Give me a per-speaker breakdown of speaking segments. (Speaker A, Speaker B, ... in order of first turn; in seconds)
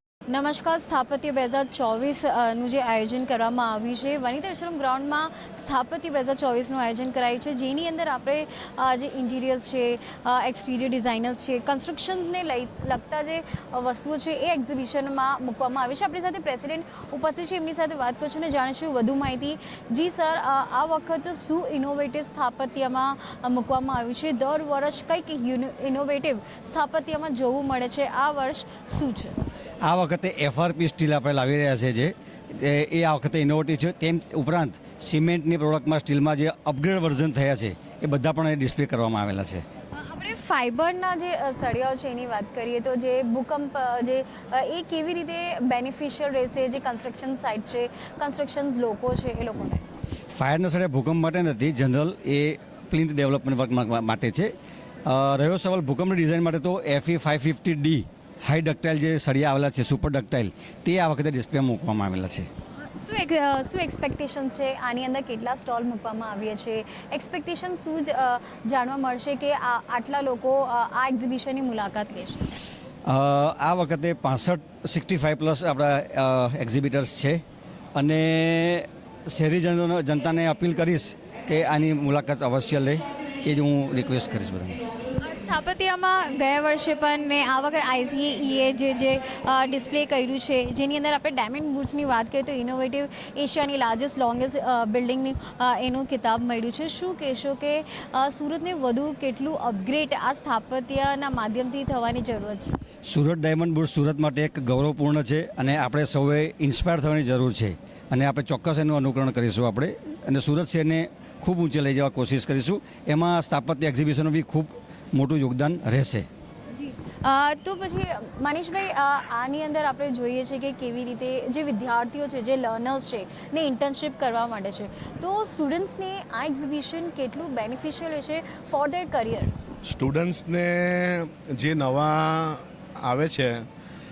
Speaker A: 0.3-29.3, 39.9-49.8, 62.9-72.4, 85.2-102.8, 116.7-129.5
Speaker B: 29.8-39.6, 50.3-54.5, 55.0-62.5, 73.1-77.4, 78.0-84.8, 103.1-116.3
Speaker C: 129.8-133.6